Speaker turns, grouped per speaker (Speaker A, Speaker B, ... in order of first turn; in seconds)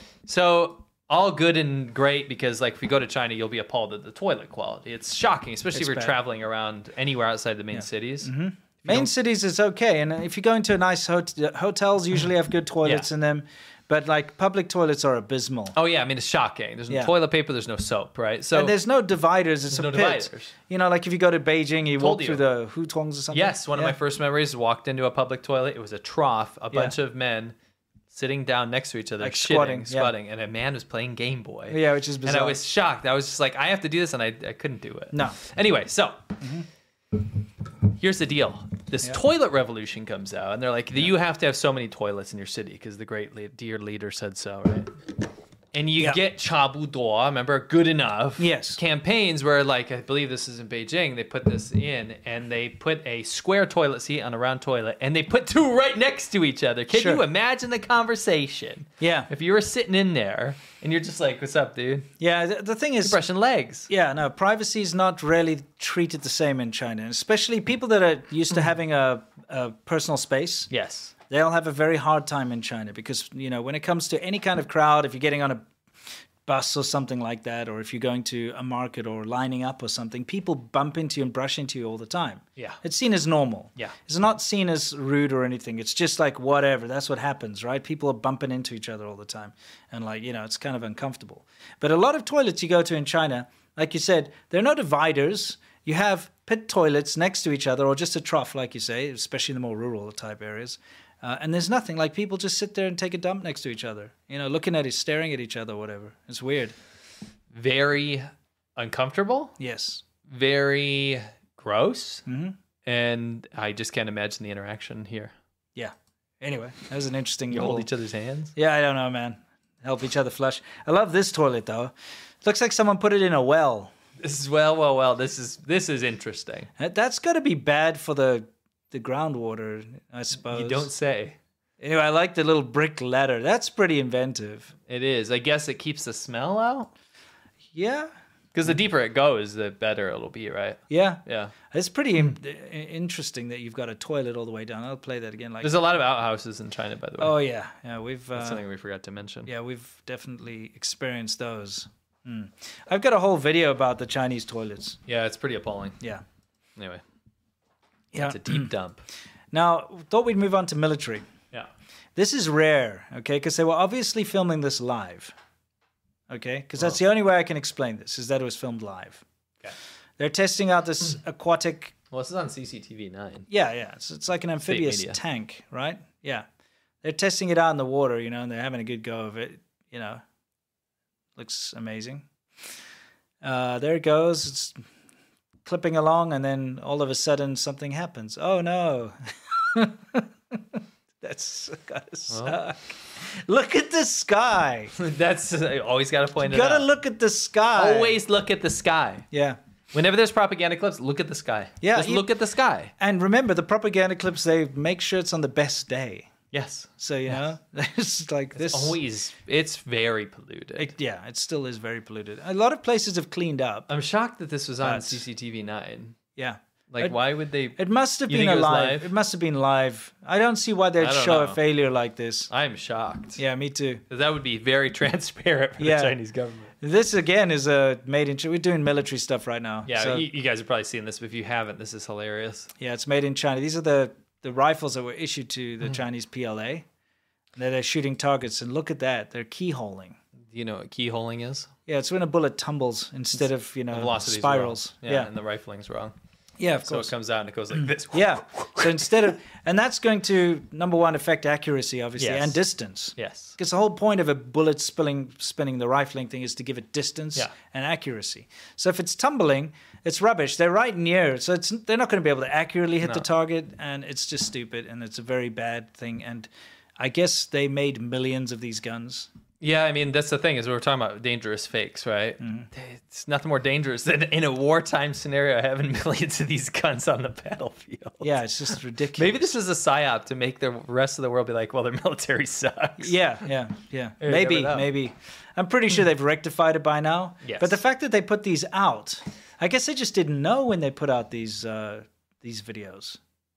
Speaker A: 0.2-8.3, 8.8-9.1, 15.7-18.7, 19.7-20.5, 22.0-22.4, 23.3-27.5, 28.1-36.3, 38.0-44.9, 45.7-62.1, 63.0-63.9, 70.7-71.1, 107.5-109.5, 110.3-112.2, 112.8-115.3, 117.5-118.5, 124.2-126.7, 130.4-131.4, 134.9-136.9, 138.5-141.5, 145.6-147.3, 148.3-149.5, 155.1-156.0, 156.8-157.0, 158.2-159.0, 172.1-173.5, 174.6-175.2, 192.3-192.6, 194.9-196.9, 197.7-199.3, 199.9-202.9, 206.5-207.4, 208.5-210.9, 213.9-216.2, 216.9-219.1, 221.0-221.6, 222.5-223.4, 224.1-226.7, 229.8-232.7, 240.5-241.7, 243.9-246.1, 246.8-249.0, 252.2-252.6, 253.2-253.5, 269.6-278.3, 279.1-283.1, 284.2-284.9, 287.4-287.8
Speaker B: 5.7-6.2, 7.7-15.8, 18.5-23.9, 29.2-30.1, 31.7-32.6, 35.1-35.4, 36.4-36.6, 48.4-48.8, 56.9-57.2, 59.0-59.3, 62.2-63.2, 63.9-70.7, 71.3-75.7, 76.5-106.7, 109.6-110.0, 112.2-112.5, 115.8-117.9, 118.5-123.9, 126.8-130.9, 131.8-134.7, 137.7-138.1, 140.9-145.7, 147.2-148.6, 149.4-155.0, 158.1-158.7, 159.5-161.2, 162.1-165.3, 166.3-169.2, 170.2-171.9, 173.5-176.5, 177.0-180.2, 181.3-182.3, 183.4-184.8, 185.6-194.9, 196.4-198.2, 199.3-199.6, 201.8-202.3, 203.0-206.3, 207.0-209.0, 210.8-213.9, 214.8-215.2, 216.3-217.2, 217.8-222.5, 223.3-224.0, 225.8-226.2, 226.8-230.2, 232.8-236.8, 237.6-240.2, 241.9-245.3, 246.6-247.1, 248.1-269.3, 272.4-272.7, 278.2-279.5, 283.0-293.2